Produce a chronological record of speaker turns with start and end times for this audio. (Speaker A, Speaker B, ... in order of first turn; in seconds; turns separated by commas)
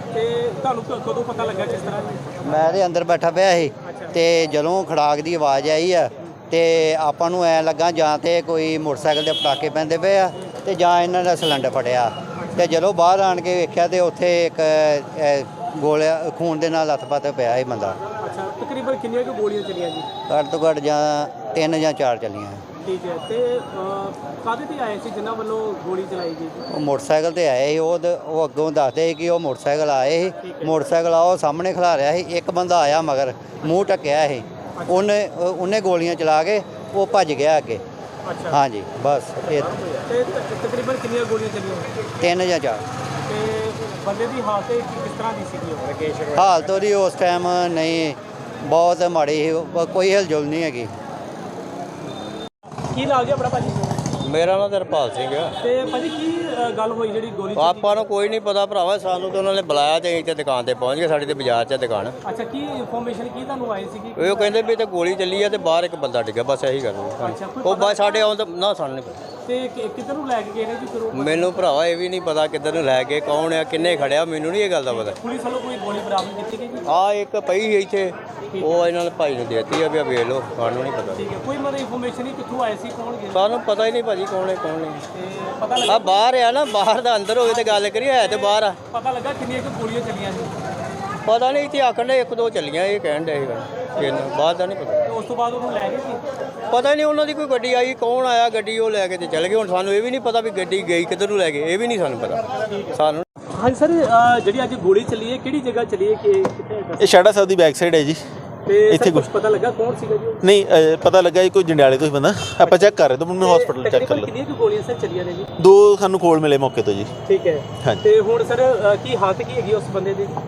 Speaker A: 0.1-2.5, Speaker B: 2.4-18.0, Speaker A: 3.9-4.2, Speaker A: 12.4-12.7, Speaker A: 18.1-20.1, Speaker B: 20.3-22.6, Speaker A: 22.8-26.7, Speaker B: 26.7-37.8, Speaker A: 30.4-30.8, Speaker A: 34.8-35.0, Speaker A: 38.3-38.6, Speaker B: 38.5-39.7, Speaker A: 39.9-41.9, Speaker B: 42.2-42.9, Speaker A: 43.3-46.3, Speaker B: 46.3-50.9, Speaker A: 52.9-53.8, Speaker C: 54.2-55.6, Speaker A: 55.6-57.9, Speaker C: 57.6-62.2, Speaker A: 62.2-64.5, Speaker C: 64.2-69.2, Speaker A: 67.2-68.3, Speaker A: 69.5-71.5, Speaker C: 71.1-75.2, Speaker A: 75.0-76.9, Speaker C: 76.9-81.2, Speaker A: 78.5-78.9, Speaker A: 81.2-83.5, Speaker C: 83.3-85.0, Speaker A: 85.1-86.3, Speaker C: 85.9-88.8, Speaker A: 87.5-90.6, Speaker C: 91.3-95.0, Speaker A: 95.1-96.2, Speaker C: 96.7-103.2, Speaker A: 103.5-107.1, Speaker D: 107.0-108.3, Speaker A: 108.7-110.4, Speaker D: 108.8-109.3, Speaker D: 110.4-114.3, Speaker A: 112.6-115.5, Speaker D: 115.6-117.1, Speaker A: 117.2-120.4